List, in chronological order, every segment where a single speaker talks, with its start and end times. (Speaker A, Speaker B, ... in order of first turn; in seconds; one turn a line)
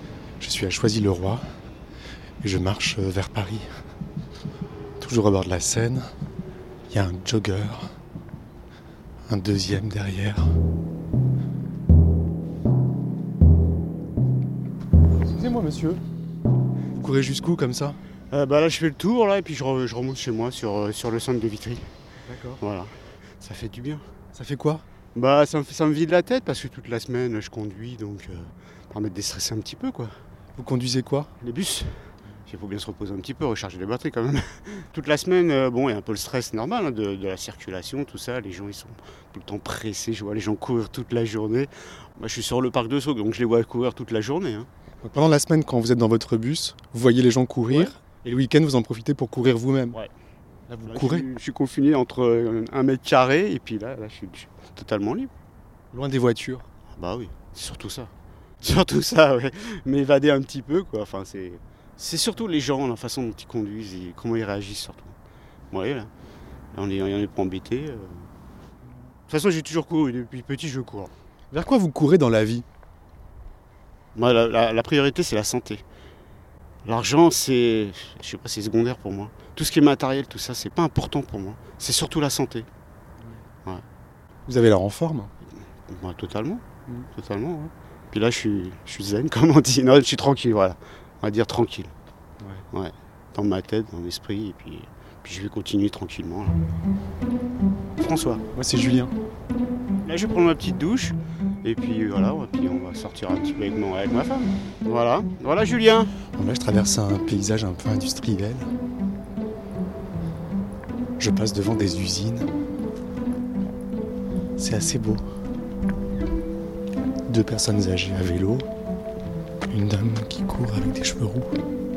Speaker A: 0.4-1.4
Speaker A: 2.4-3.7
Speaker A: 5.0-6.0
Speaker A: 6.9-7.9
Speaker A: 9.3-10.4
Speaker A: 15.2-16.0
Speaker A: 16.9-18.0
Speaker B: 18.3-21.8
Speaker A: 22.2-22.6
Speaker B: 22.6-24.0
Speaker A: 24.3-24.8
Speaker B: 25.1-30.1
Speaker A: 30.6-31.3
Speaker B: 31.4-31.9
Speaker B: 32.5-44.7
Speaker A: 45.0-50.0
Speaker A: 50.7-51.3
Speaker B: 50.8-55.3
Speaker A: 55.9-56.7
Speaker B: 57.0-65.1
Speaker B: 65.7-66.1
Speaker B: 66.7-68.2
Speaker B: 69.3-71.1
Speaker A: 71.5-72.6
Speaker B: 74.1-75.8
Speaker B: 76.8-82.7
Speaker A: 84.5-85.3
Speaker B: 85.6-91.9
Speaker B: 92.7-96.5
Speaker B: 98.0-98.4
Speaker A: 98.5-99.1
Speaker B: 100.0-106.1
Speaker A: 106.3-108.7
Speaker A: 111.2-112.5
Speaker A: 114.6-115.2
Speaker A: 117.3-118.7
Speaker A: 119.7-121.5